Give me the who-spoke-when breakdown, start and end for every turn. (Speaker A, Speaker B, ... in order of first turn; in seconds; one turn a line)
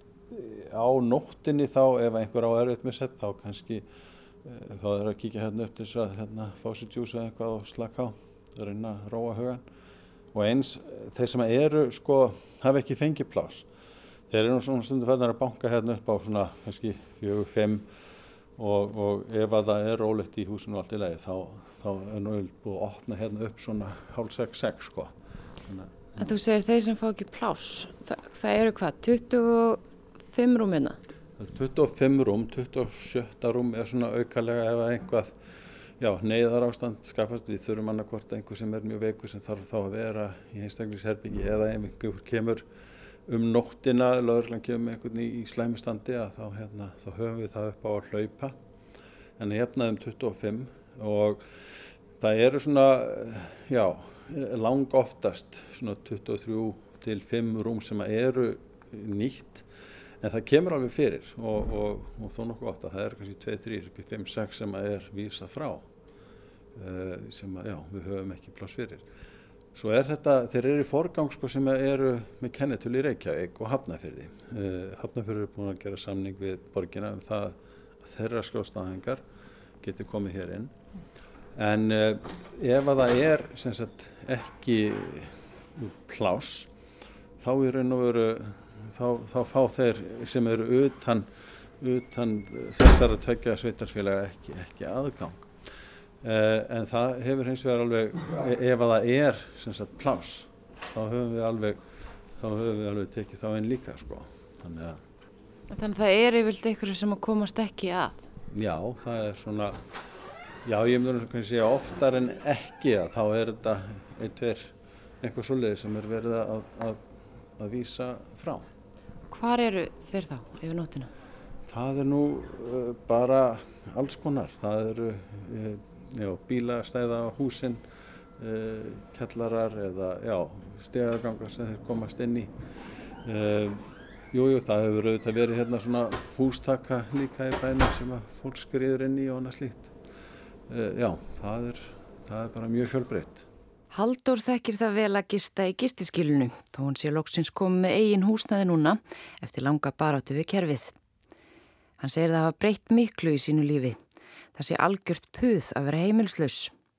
Speaker A: 0.3-3.9
Speaker A: 4.4-9.6
Speaker A: 10.3-13.7
Speaker A: 14.3-17.9
Speaker A: 18.6-25.1
Speaker A: 25.6-26.0
Speaker B: 26.2-31.0
Speaker A: 31.4-35.4
Speaker A: 36.0-42.6
Speaker A: 43.3-48.5
Speaker A: 49.4-51.4
Speaker A: 52.2-59.7
Speaker A: 60.2-65.9
Speaker A: 66.8-69.0
Speaker A: 69.7-79.2
Speaker A: 79.8-80.7
Speaker A: 81.5-86.7
Speaker A: 87.4-91.3
Speaker A: 91.8-95.5
Speaker A: 96.2-101.8
Speaker A: 102.4-105.0
Speaker B: 105.7-108.2
Speaker A: 108.5-109.8
Speaker A: 110.6-118.7
Speaker B: 119.3-121.1
Speaker A: 121.7-127.8
Speaker A: 128.4-132.5
Speaker A: 133.2-139.9
Speaker A: 140.7-143.5
Speaker B: 143.9-150.9
Speaker B: 152.0-154.0
Speaker B: 154.6-156.7